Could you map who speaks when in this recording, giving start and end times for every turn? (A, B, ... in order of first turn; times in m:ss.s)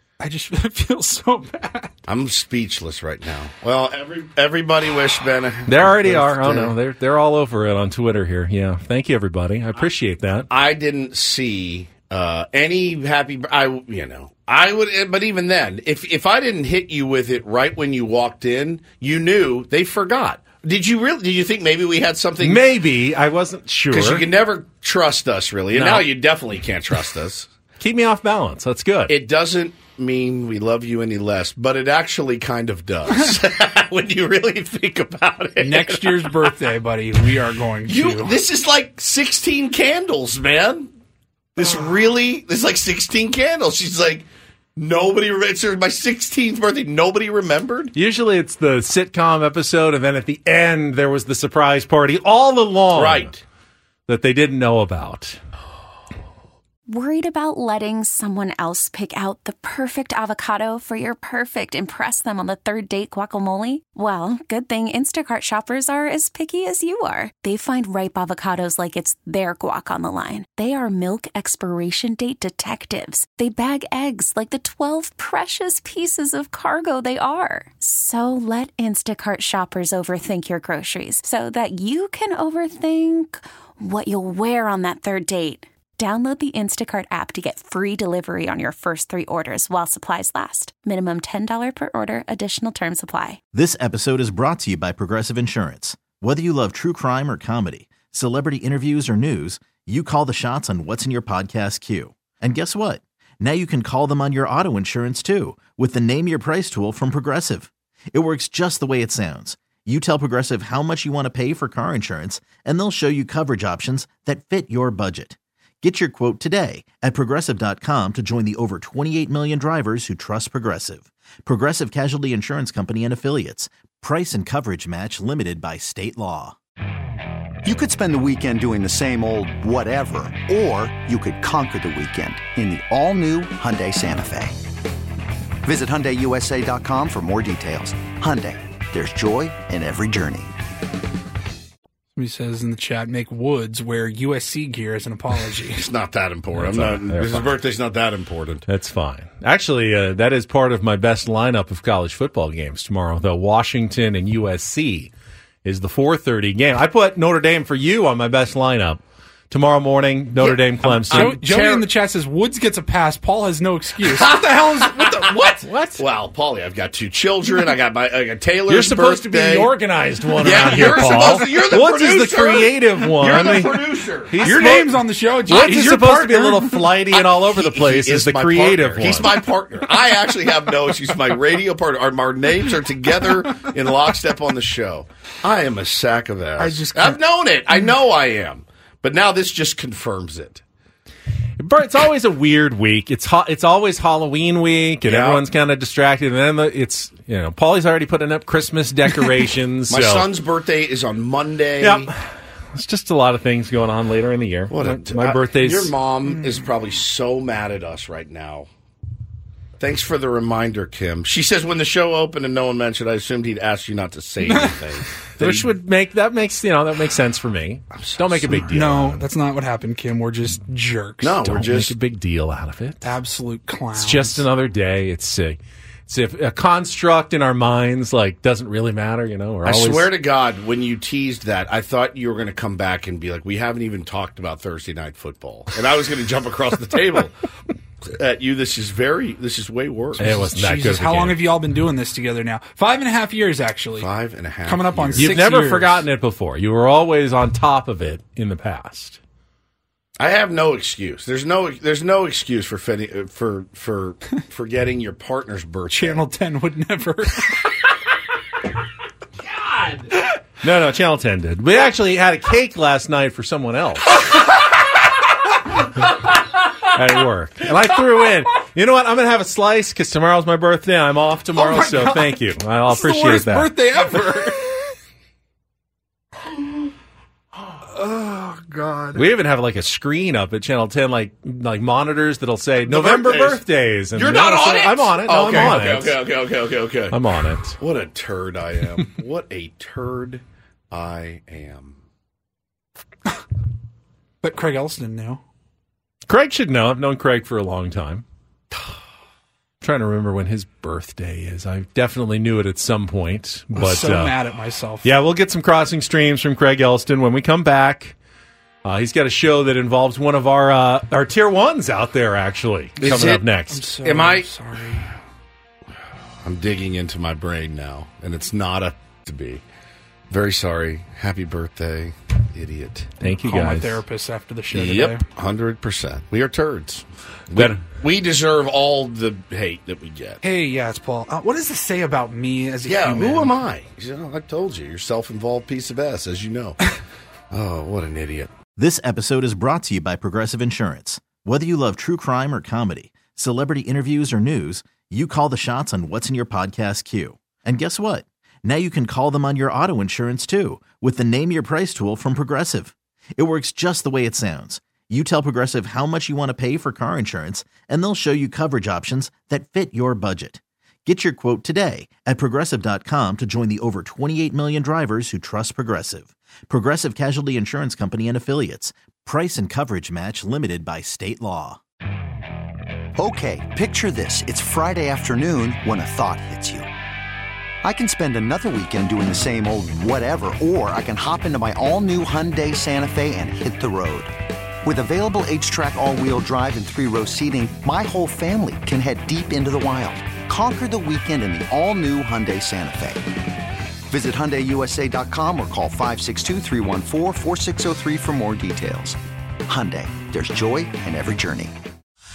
0:00.2-0:01.9 A
0:02.1-0:06.8 B
0:05.7-0:10.5 C
0:10.5-0:22.6 B
0:22.4-0:24.3 C
0:23.9-0:27.5 B
0:25.7-0:26.1 C
0:27.8-0:29.1 C
0:29.1-0:36.5 B
0:35.6-0:38.4 A
0:37.8-0:40.9 B
0:41.6-0:47.9 B
0:47.9-0:53.3 C
0:52.9-0:53.4 B
0:54.1-0:55.4 C
0:56.9-1:33.4 D
1:33.5-2:06.5 E
2:07.6-2:14.6 F
2:15.6-2:20.5 F
2:22.1-2:25.9 A
2:25.8-2:28.6 B
2:26.5-2:27.6 C
2:28.7-2:35.1 C
2:35.6-2:41.4 C
2:40.4-2:41.9 B
2:40.8-2:45.4 A
2:44.0-2:49.7 B
2:45.6-2:46.0 C
2:48.7-2:59.4 C
2:50.4-2:54.4 B
2:54.4-2:56.9 A
2:57.1-3:10.6 B
3:06.6-3:07.2 A
3:11.6-3:20.3 C
3:15.0-3:15.4 B
3:19.9-3:22.1 B
3:21.8-3:22.1 C
3:22.7-3:25.9 C
3:24.7-3:28.7 B
3:29.8-3:35.7 B
3:35.4-3:39.2 C
3:37.9-3:39.0 B
3:38.7-3:41.4 A
3:41.2-3:41.9 B
3:41.4-3:43.0 C
3:43.0-3:44.4 A
3:43.9-3:50.1 C
3:49.6-3:57.3 B
3:58.0-4:00.3 B
4:00.2-4:01.4 C
4:00.3-4:04.1 A
4:04.0-4:05.4 B
4:04.6-4:06.0 A
4:05.2-4:09.2 C
4:10.2-4:16.2 B
4:15.9-4:17.5 A
4:20.6-4:24.2 C
4:26.8-4:33.7 C
4:31.5-4:34.7 A
4:37.9-4:39.2 A
4:39.1-4:46.2 C
4:42.8-4:47.2 B
4:47.1-4:47.8 C
4:47.8-4:52.0 B
4:54.4-4:55.4 A
4:56.2-4:58.2 C
4:59.8-5:04.4 C
5:03.7-5:05.1 A
5:05.0-5:08.2 C
5:08.8-5:13.8 C
5:13.0-5:13.5 B
5:13.6-5:15.1 A
5:14.0-5:14.5 B
5:16.4-5:19.6 B
5:20.3-5:23.2 B
5:23.2-5:24.0 C
5:23.3-5:25.2 A
5:24.7-5:30.4 B
5:30.4-5:33.5 A
5:32.8-5:36.8 B
5:37.5-5:38.5 B
5:38.8-6:11.8 E
6:13.2-6:16.9 F
6:17.8-6:33.3 F
6:34.1-6:41.7 F